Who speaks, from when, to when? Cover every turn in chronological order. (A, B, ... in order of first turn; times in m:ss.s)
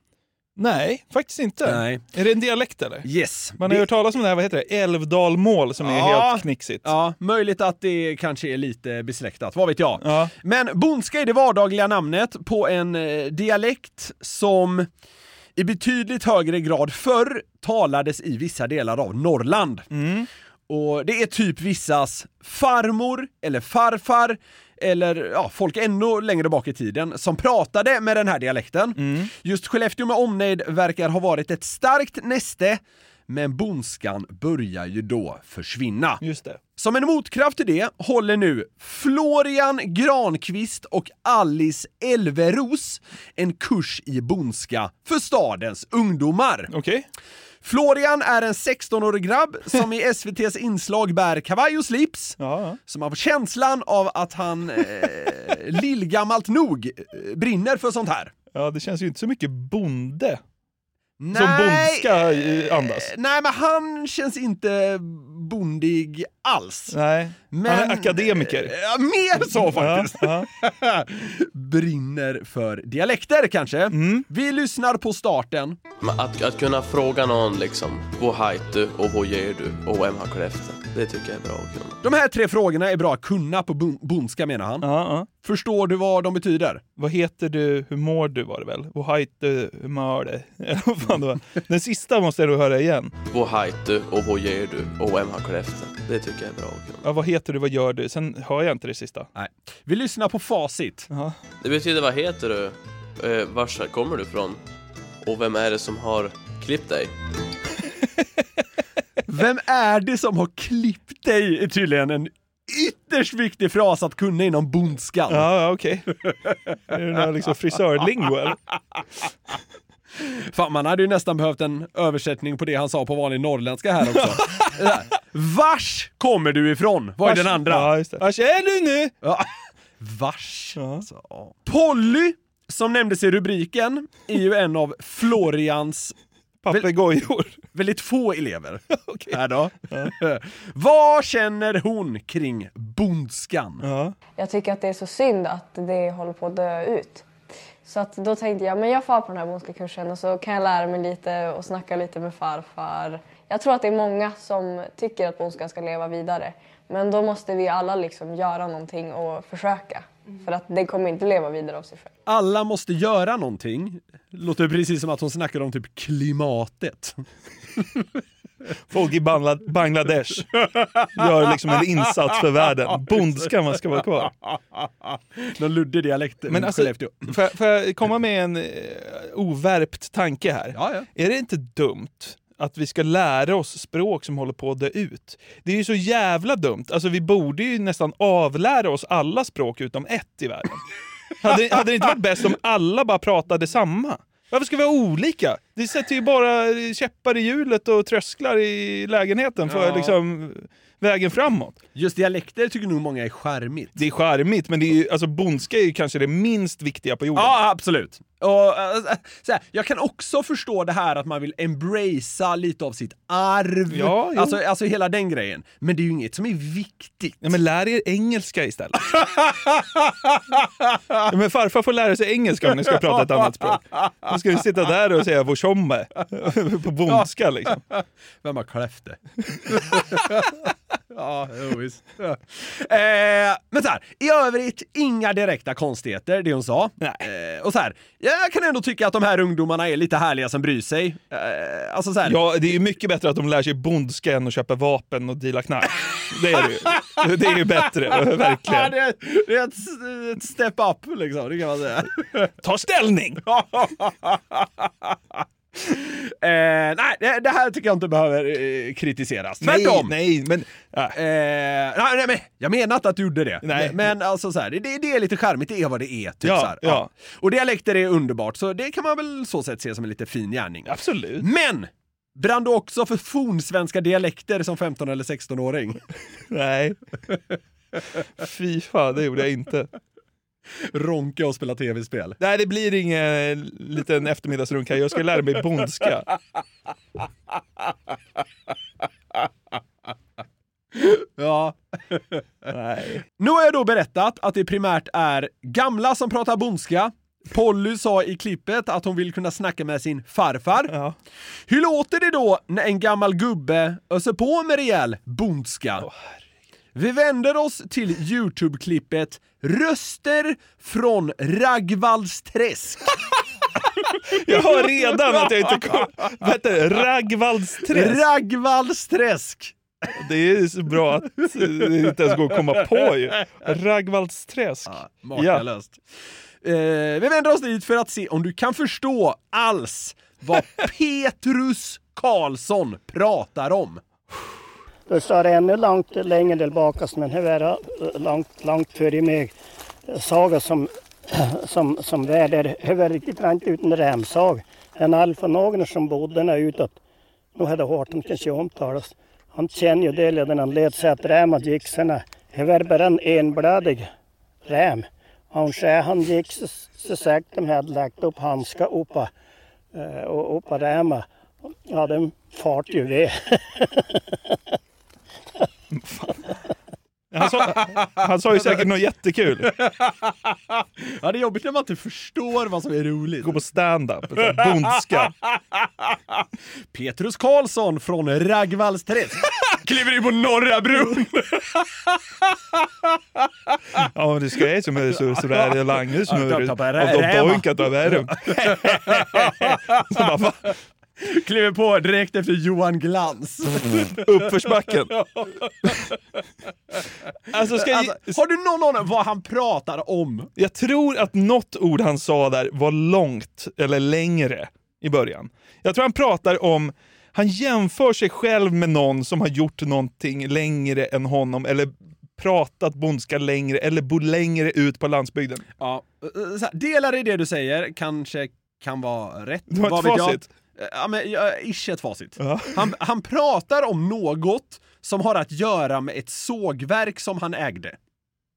0:00.6-0:03.0 A
0:01.6-0:02.0 B
0:03.0-0:03.9 B
0:03.6-0:06.9 A
0:05.8-0:14.9 B
0:10.0-0:10.3 A
0:15.6-0:19.9 B
0:19.9-0:20.3 A
0:20.7-0:36.2 B
0:29.0-0:29.3 A
0:36.2-0:36.6 A
0:36.8-0:46.7 B
0:46.7-0:47.0 A
0:47.6-0:58.3 B
0:52.4-0:52.8 A
0:58.5-1:00.4 A
1:01.2-1:07.0 B
1:01.3-1:03.1 A
1:06.9-1:08.7 A
1:07.5-1:15.8 B
1:09.4-1:10.5 A
1:13.9-1:14.2 A
1:16.0-1:22.0 C
1:22.0-1:24.8 B
1:24.8-1:25.3 A
1:25.4-1:26.8 B
1:27.0-1:33.1 A
1:33.3-1:37.0 C
1:37.0-1:39.3 A
1:39.4-1:41.1 B
1:41.1-1:41.4 A
1:41.6-1:44.6 C
1:45.2-1:47.1 C
1:49.3-1:55.5 B
1:55.3-1:56.1 A
1:56.9-1:58.6 A
2:00.2-2:07.9 B
2:04.1-2:04.8 A
2:07.2-2:09.1 A
2:09.2-2:09.5 B
2:10.0-2:16.1 B
2:10.8-2:11.0 A
2:16.6-2:17.6 A
2:17.7-2:23.8 B
2:19.0-2:19.4 A
2:23.8-2:24.1 A
2:24.4-2:27.3 D
2:27.8-2:42.1 D
2:42.3-2:47.2 B
2:48.9-2:50.5 A
2:50.6-2:51.7 B
2:51.2-2:54.3 A
2:53.1-2:53.5 B
2:55.0-2:57.3 B
2:56.5-3:10.8 A
3:00.7-3:01.0 B
3:11.4-3:21.8 A
3:19.6-3:20.2 B
3:21.9-3:24.0 B
3:24.0-3:27.5 A
3:27.3-3:37.5 B
3:33.9-3:34.6 A
3:37.4-3:39.2 A
3:41.3-3:47.8 A
3:42.8-3:44.0 B
3:47.1-3:49.2 B
3:49.7-3:50.6 B
3:51.1-4:02.4 B
3:57.0-3:57.3 A
4:02.2-4:08.9 A
4:06.9-4:12.5 B
4:12.6-4:13.4 A
4:13.4-4:20.1 B
4:19.6-4:21.2 A
4:21.1-4:36.0 B
4:23.6-4:24.0 A
4:26.4-4:27.1 A
4:30.9-4:31.4 A
4:36.5-4:37.0 A
4:38.4-4:39.9 A
4:40.9-4:42.4 B
4:42.4-4:46.3 A
4:50.9-4:52.4 B
4:52.7-4:53.2 A
4:53.4-5:00.9 B
5:00.9-5:01.1 A
5:01.7-5:06.1 B
5:06.9-5:13.1 B
5:14.3-5:18.2 A
5:14.5-5:16.2 B
5:17.9-5:19.7 B
5:20.2-5:25.6 A
5:21.6-5:23.0 B
5:24.9-5:26.0 B
5:26.6-5:34.0 B
5:35.1-5:39.5 E
5:40.1-5:47.0 E
5:47.5-5:54.1 E
5:54.6-5:59.3 E
5:59.9-6:01.3 E
6:01.8-6:04.5 E
6:05.9-6:06.4 A
6:07.3-6:09.7 A
6:07.4-6:08.8 B
6:09.6-6:13.6 B
6:13.4-6:15.3 A
6:14.4-6:15.5 B
6:16.9-6:22.2 B
6:24.0-6:30.7 A
6:25.3-6:30.2 B
6:31.2-6:36.1 B
6:34.1-6:35.1 A
6:37.5-6:38.4 A
6:37.7-6:40.5 B
6:40.6-6:55.6 A
6:55.8-7:08.0 B
6:59.7-7:00.4 A
7:02.4-7:02.9 A